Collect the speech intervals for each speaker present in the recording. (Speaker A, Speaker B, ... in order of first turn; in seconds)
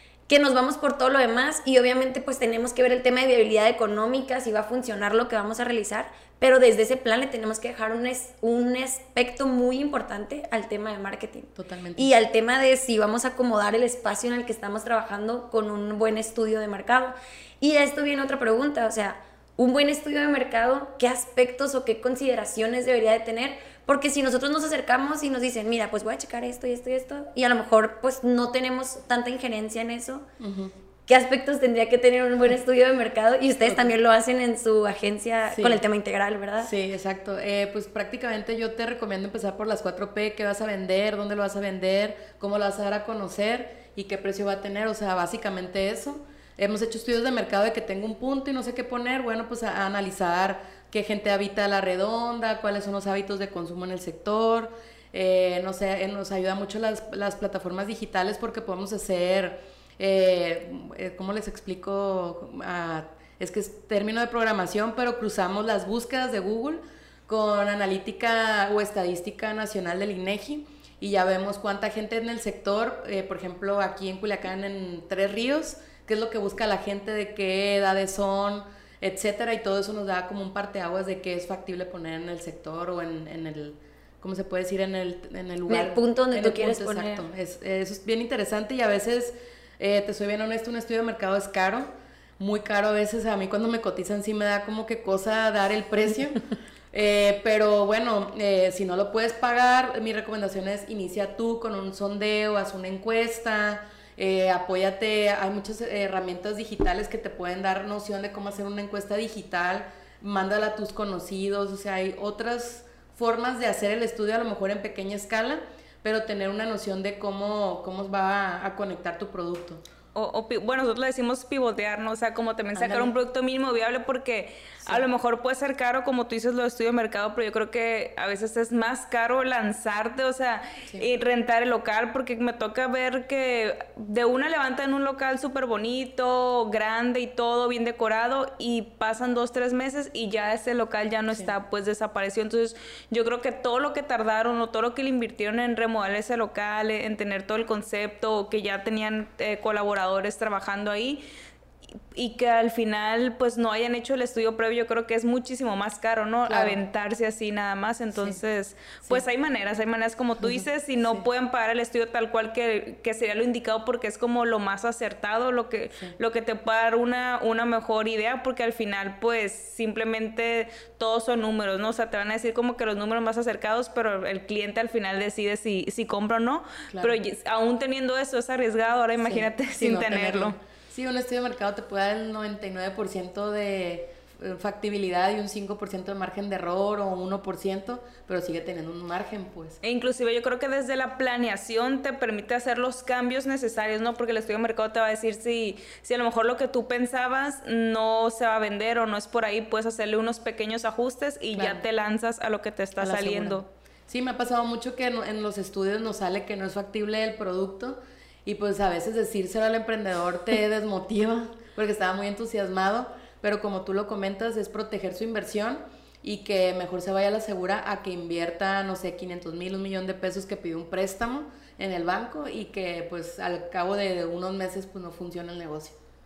Speaker A: 0.3-30.3, 31.1-36.7, 85.7-87.2
Speaker B: 11.6-12.1, 30.4-30.8, 33.6-33.9, 35.5-35.8, 36.6-96.4, 96.9-119.8, 122.8-123.1, 156.5-156.8, 158.1-158.4, 160.4-161.3, 176.9-177.2, 179.2-189.8, 201.6-201.8, 203.0-226.0
Speaker C: 120.1-151.2, 152.1-180.6, 189.8-203.7